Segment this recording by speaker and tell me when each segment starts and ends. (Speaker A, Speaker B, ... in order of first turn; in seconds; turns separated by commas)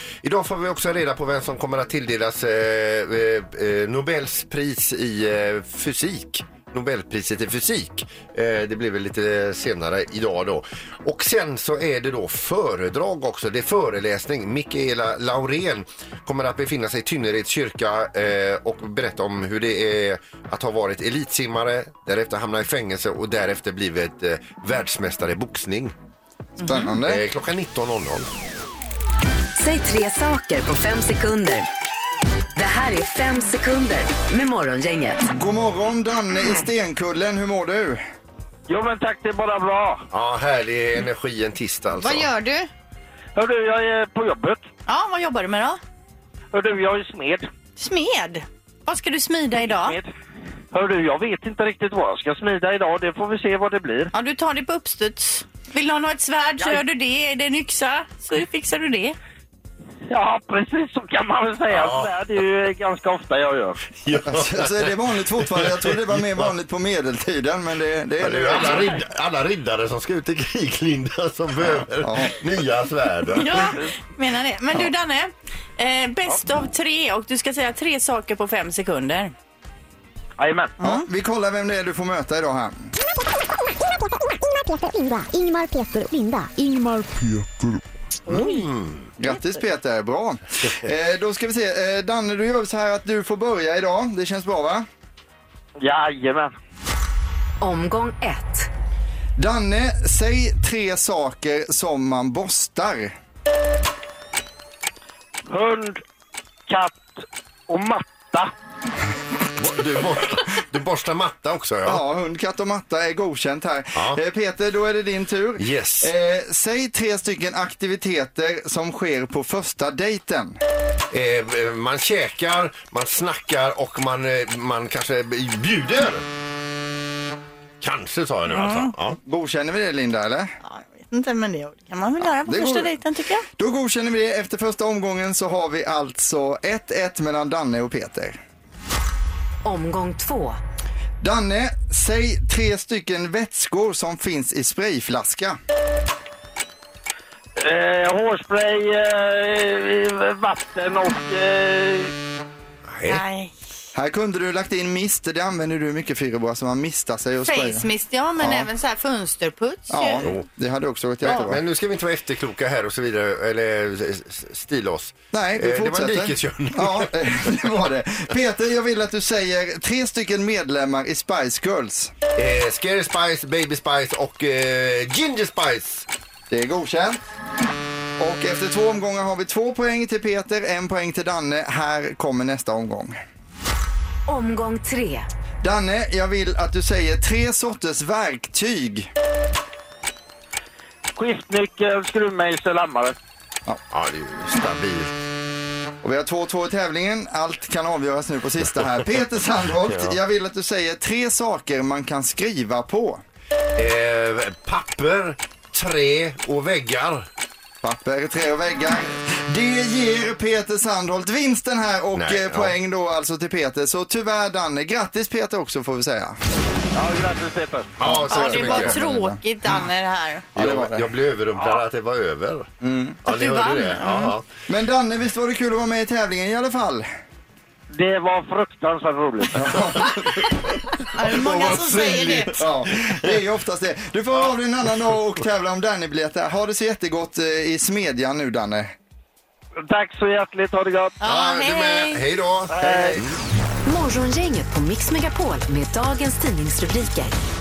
Speaker A: 0.2-25.9, Speaker B: 26.6-27.2, Speaker C: 26.6-26.9, Speaker A: 27.0-28.3, Speaker D: 29.6-31.7, Speaker D: 32.5-35.3, Speaker B: 35.3-38.0, Speaker E: 38.7-40.1, Speaker A: 40.1-42.3, Speaker C: 42.0-42.7, Speaker E: 43.4-44.6, Speaker C: 44.9-45.8, Speaker E: 46.5-47.5, Speaker C: 47.8-50.0, Speaker E: 49.7-50.1, Speaker E: 50.7-54.1, Speaker C: 54.1-59.2, Speaker E: 60.1-63.8, Speaker A: 61.7-62.1, Speaker A: 63.9-66.4, Speaker B: 64.2-68.9, Speaker A: 68.2-73.7, Speaker B: 71.7-72.4, Speaker C: 73.3-79.3, Speaker E: 80.4-80.8, Speaker C: 80.8-81.1, Speaker B: 80.8-82.9, Speaker F: 83.7-87.2, Speaker A: 88.3-89.1, Speaker B: 89.2-94.9, Speaker E: 95.8-96.5, Speaker D: 97.6-98.7, Speaker B: 99.4-103.2, Speaker E: 105.5-106.0, Speaker E: 106.7-108.5, Speaker A: 109.6-112.0, Speaker B: 111.8-120.6, Speaker A: 115.6-116.1, Speaker A: 121.1-126.2, Speaker A: 127.8-129.2, Speaker C: 128.5-128.9, Speaker B: 129.2-130.5, Speaker C: 130.6-133.5, Speaker B: 132.4-132.9, Speaker B: 133.6-138.4, Speaker D: 139.6-140.6, Speaker B: 141.2-145.6, Speaker E: 147.6-152.1, Speaker A: 152.9-153.2, Speaker C: 153.1-153.5, Speaker B: 153.9-158.7, Speaker C: 157.4-160.3, Speaker B: 159.9-161.6, Speaker A: 161.2-167.1, Speaker B: 165.3-172.1, Speaker A: 172.4-176.1, Speaker B: 176.5-177.2, Speaker B: 178.2-183.2, Speaker D: 184.3-185.3, Speaker B: 185.6-189.1, Speaker E: 191.2-193.2, Speaker A: 193.9-195.1, Speaker B: 196.0-203.2, Speaker A: 203.8-207.3, Speaker B: 207.8-216.4, Speaker A: 212.2-212.7, Speaker E: 216.9-218.0, Speaker A: 218.0-219.0, Speaker B: 218.0-219.8, Speaker C: 218.3-220.5, Speaker B: 220.6-221.1, Speaker A: 220.6-222.7, Speaker E: 221.6-221.8, Speaker B: 222.8-223.2, Speaker A: 223.2-224.5, Speaker C: 223.3-224.3, Speaker B: 224.7-227.1, Speaker E: 227.9-229.7, Speaker B: 229.5-230.6, Speaker C: 231.1-232.6, Speaker B: 231.3-238.9, Speaker A: 231.3-232.5, Speaker E: 239.9-241.2, Speaker C: 241.2-242.2, Speaker A: 241.2-243.3, Speaker E: 242.7-243.2, Speaker B: 242.8-243.2, Speaker D: 243.9-247.3